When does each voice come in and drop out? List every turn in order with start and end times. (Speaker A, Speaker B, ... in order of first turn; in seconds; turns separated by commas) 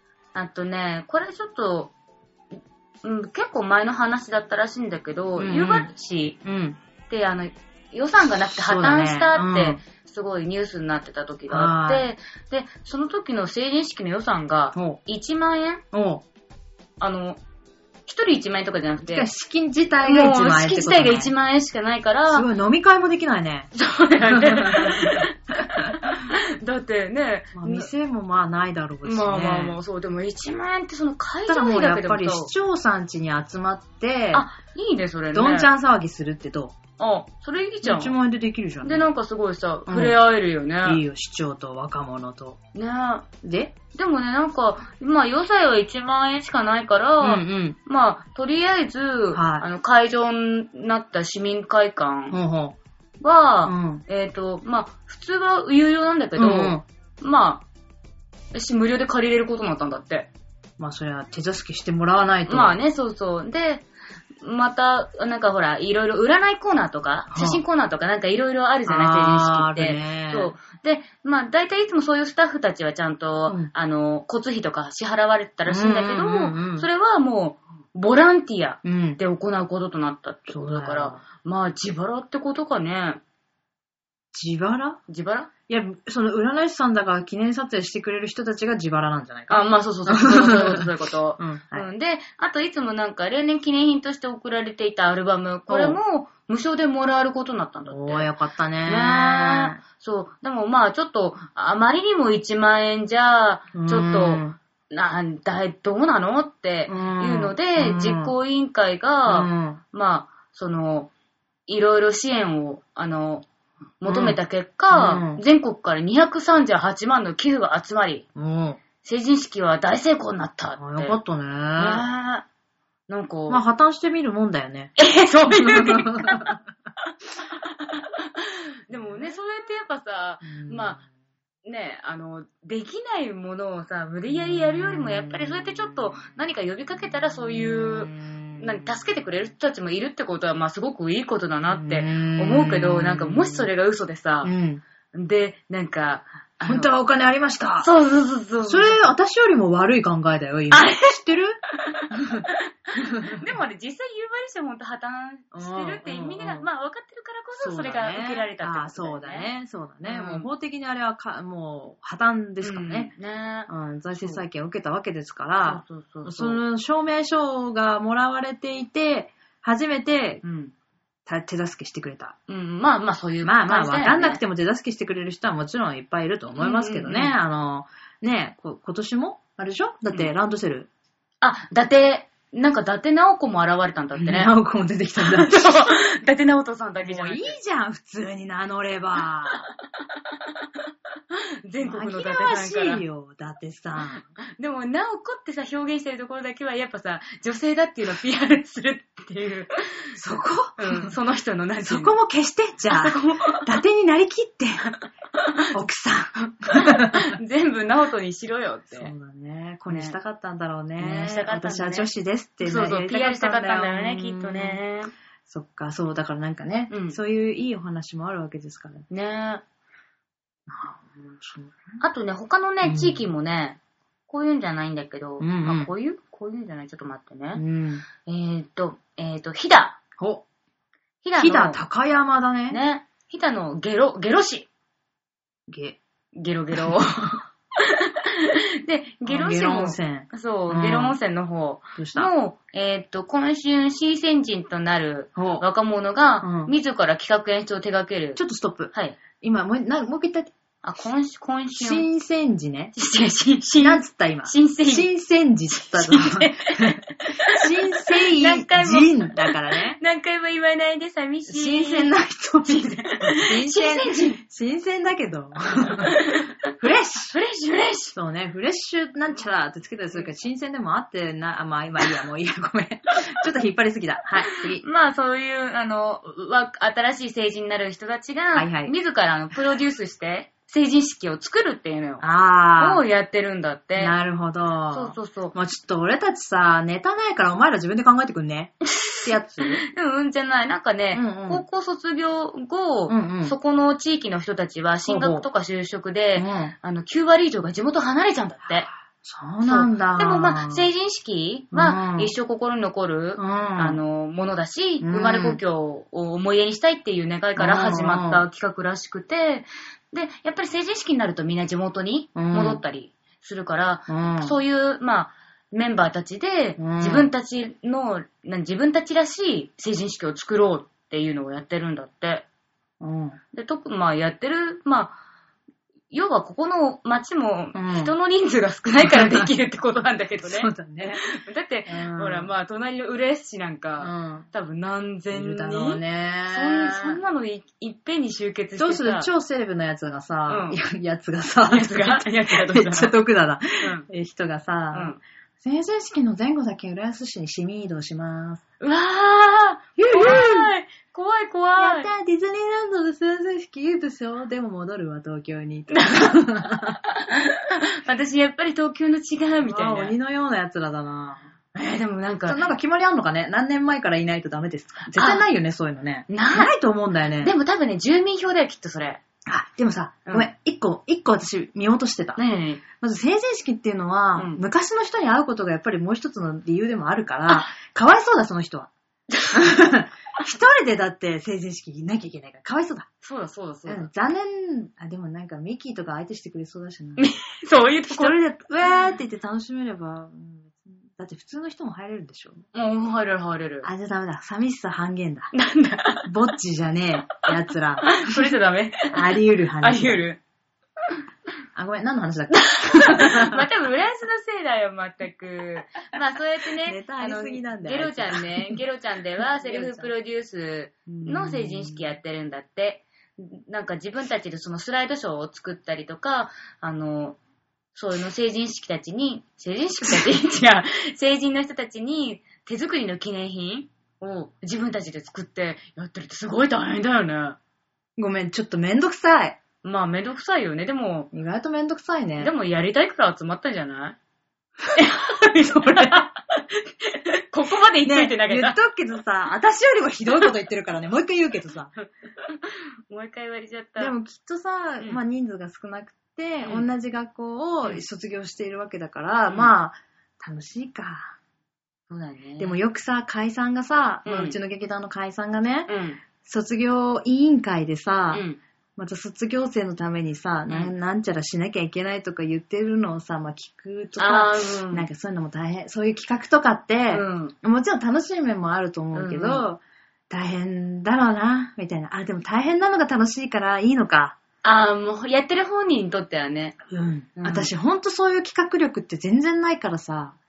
Speaker A: 0.3-1.9, Speaker A: 3.0-6.4, Speaker B: 5.4-5.9, Speaker B: 6.4-6.8, Speaker A: 7.1-15.8, Speaker B: 8.5-9.8, Speaker B: 11.5-12.1, Speaker B: 15.9-16.2, Speaker A: 17.0-17.4, Speaker A: 18.1-19.3, Speaker B: 19.1-21.3, Speaker A: 20.0-22.5, Speaker B: 22.3-23.7, Speaker A: 23.7-27.9, Speaker B: 24.2-26.1, Speaker B: 27.5-29.8, Speaker A: 29.0-32.5, Speaker B: 31.5-34.5, Speaker A: 34.3-35.7, Speaker B: 35.3-36.7, Speaker A: 37.0-38.2, Speaker B: 37.8-39.1, Speaker A: 38.8-41.0, Speaker B: 39.9-40.2, Speaker B: 40.8-42.6, Speaker A: 42.7-43.3, Speaker B: 43.4-43.7, Speaker A: 43.9-52.4, Speaker B: 47.2-47.8, Speaker B: 49.3-49.6, Speaker B: 52.3-52.8, Speaker A: 53.2-57.6, Speaker B: 53.6-54.0, Speaker B: 56.4-56.8, Speaker A: 58.5-60.3, Speaker B: 60.8-62.8, Speaker A: 62.5-63.9, Speaker A: 64.4-83.2, Speaker B: 67.3-67.6, Speaker B: 68.8-70.5, Speaker B: 75.7-76.9, Speaker B: 78.8-79.2, Speaker B: 80.5-81.2, Speaker B: 84.3-85.0, Speaker A: 85.1-85.5, Speaker B: 85.7-90.9, Speaker A: 89.5-98.3, Speaker B: 91.4-91.8, Speaker B: 95.7-96.0, Speaker B: 97.9-99.8, Speaker A: 98.8-111.1, Speaker B: 103.7-104.6, Speaker B: 106.9-108.3, Speaker B: 109.3-109.8, Speaker A: 111.7-113.5, Speaker A: 114.0-118.2, Speaker B: 114.0-114.4, Speaker B: 114.9-115.4, Speaker B: 118.3-118.8, Speaker A: 119.0-121.2, Speaker B: 120.8-122.0, Speaker A: 121.8-122.4, Speaker A: 123.1-123.6, Speaker B: 123.5-125.0, Speaker A: 125.0-126.5, Speaker B: 125.5-126.6, Speaker A: 127.5-131.0, Speaker B: 130.4-131.0, Speaker A: 131.6-144.5, Speaker B: 138.0-138.7, Speaker B: 141.7-143.7, Speaker B: 144.4-144.8, Speaker A: 145.1-146.9, Speaker B: 146.6-147.9, Speaker A: 147.8-149.1, Speaker B: 148.6-151.6, Speaker A: 150.7-151.1, Speaker A: 151.8-159.5, Speaker B: 152.1-153.4, Speaker B: 155.5-156.7, Speaker B: 157.6-163.1, Speaker A: 160.0-160.5, Speaker A: 162.6-164.4, Speaker B: 163.7-170.4, Speaker A: 165.6-166.6, Speaker A: 170.4-170.7, Speaker B: 171.2-172.3, Speaker A: 172.5-174.4, Speaker B: 173.4-180.9, Speaker A: 176.6-177.4, Speaker A: 181.4-184.5, Speaker B: 184.2-185.9, Speaker A: 185.2-187.6, Speaker B: 187.0-189.7, Speaker A: 191.3-193.0, Speaker B: 191.8-194.2, Speaker A: 194.1-200.2, Speaker B: 200.2-201.1, Speaker A: 200.8-202.2, Speaker B: 201.8-204.9, Speaker A: 202.9-203.7, Speaker A: 205.4-205.7, Speaker B: 205.7-207.3, Speaker A: 206.4-209.1, Speaker B: 208.9-214.8, Speaker A: 209.9-210.2, Speaker A: 211.0-212.1, Speaker A: 212.6-215.1, Speaker B: 215.5-219.1, Speaker A: 216.9-217.2, Speaker A: 219.1-219.6, Speaker B: 220.7-222.0, Speaker A: 222.0-227.6, Speaker B: 222.8-223.2, Speaker B: 225.4-225.9, Speaker B: 227.6-228.0, Speaker A: 228.2-230.0, Speaker B: 230.2-230.4, Speaker A: 231.2-231.8, Speaker B: 231.4-232.8, Speaker A: 232.7-234.7, Speaker B: 235.7-236.0, Speaker A: 236.3-248.4, Speaker B: 236.7-237.0, Speaker B: 239.2-241.2, Speaker B: 241.9-242.3, Speaker B: 245.3-245.6, Speaker B: 246.4-246.7, Speaker B: 248.3-250.5, Speaker A: 248.9-249.2, Speaker A: 250.8-252.1, Speaker B: 251.8-252.9, Speaker A: 252.9-255.1, Speaker B: 253.8-260.0, Speaker A: 255.7-264.4, Speaker B: 261.5-266.2, Speaker A: 266.0-266.7, Speaker B: 266.8-267.3, Speaker A: 267.3-268.1, Speaker B: 268.1-274.8, Speaker A: 274.5-282.2, Speaker B: 278.5-278.9, Speaker B: 282.2-283.0, Speaker A: 282.8-284.1, Speaker B: 283.9-289.8, Speaker A: 284.9-285.5, Speaker A: 288.8-298.9, Speaker B: 291.1-291.6, Speaker B: 293.1-293.6, Speaker B: 295.1-295.4, Speaker B: 296.4-296.7, Speaker B: 299.2-300.9, Speaker A: 299.6-322.4, Speaker B: 301.7-302.3, Speaker B: 303.4-304.0, Speaker B: 305.0-305.6, Speaker B: 307.6-308.4, Speaker B: 312.3-312.8, Speaker B: 314.1-314.6, Speaker B: 316.8-317.3, Speaker B: 323.0-323.4, Speaker A: 323.5-325.2, Speaker A: 326.1-339.3, Speaker B: 327.7-328.1, Speaker B: 329.0-329.5, Speaker B: 330.4-331.2, Speaker B: 331.9-332.5, Speaker B: 334.0-334.5, Speaker B: 335.3-337.2, Speaker B: 338.8-348.6, Speaker A: 340.5-340.8, Speaker A: 341.7-343.1, Speaker A: 343.8-344.1, Speaker A: 344.9-345.2, Speaker A: 348.8-352.1, Speaker B: 350.0-350.7, Speaker B: 351.8-357.0, Speaker A: 355.9-356.4, Speaker A: 357.0-360.1, Speaker B: 359.6-361.4, Speaker A: 361.7-362.6, Speaker B: 362.5-367.5, Speaker A: 365.1-365.4, Speaker A: 366.3-366.7, Speaker A: 367.4-369.2, Speaker B: 369.4-372.4, Speaker A: 372.4-372.8, Speaker B: 372.9-378.9, Speaker A: 374.4-374.6, Speaker A: 379.3-379.6, Speaker B: 379.5-383.1, Speaker A: 383.2-384.1, Speaker B: 383.9-387.3, Speaker A: 387.2-388.4, Speaker B: 388.1-392.6, Speaker A: 392.7-393.9, Speaker B: 393.8-395.5, Speaker A: 395.5-396.3, Speaker B: 396.2-398.5, Speaker A: 398.0-400.4, Speaker B: 399.1-400.2, Speaker B: 401.7-403.6, Speaker A: 402.5-417.4, Speaker B: 406.8-408.8, Speaker B: 409.5-410.1, Speaker B: 411.1-412.1, Speaker A: 417.9-427.6, Speaker B: 428.2-429.6, Speaker A: 429.8-431.3, Speaker B: 431.3-432.5, Speaker A: 432.4-434.2, Speaker A: 434.9-438.8, Speaker B: 435.8-436.2, Speaker B: 438.0-441.9, Speaker A: 442.0-444.1, Speaker B: 444.0-451.3, Speaker A: 446.6-446.9, Speaker A: 449.5-449.7, Speaker A: 452.1-452.8, Speaker B: 452.6-455.9, Speaker A: 454.2-454.6, Speaker A: 455.9-456.2, Speaker B: 456.4-458.4, Speaker A: 458.3-458.6, Speaker B: 459.0-474.4, Speaker A: 460.7-460.9, Speaker A: 464.2-465.1, Speaker A: 467.1-467.5, Speaker A: 469.1-469.6, Speaker A: 474.6-476.8, Speaker B: 476.9-480.4, Speaker A: 477.4-477.7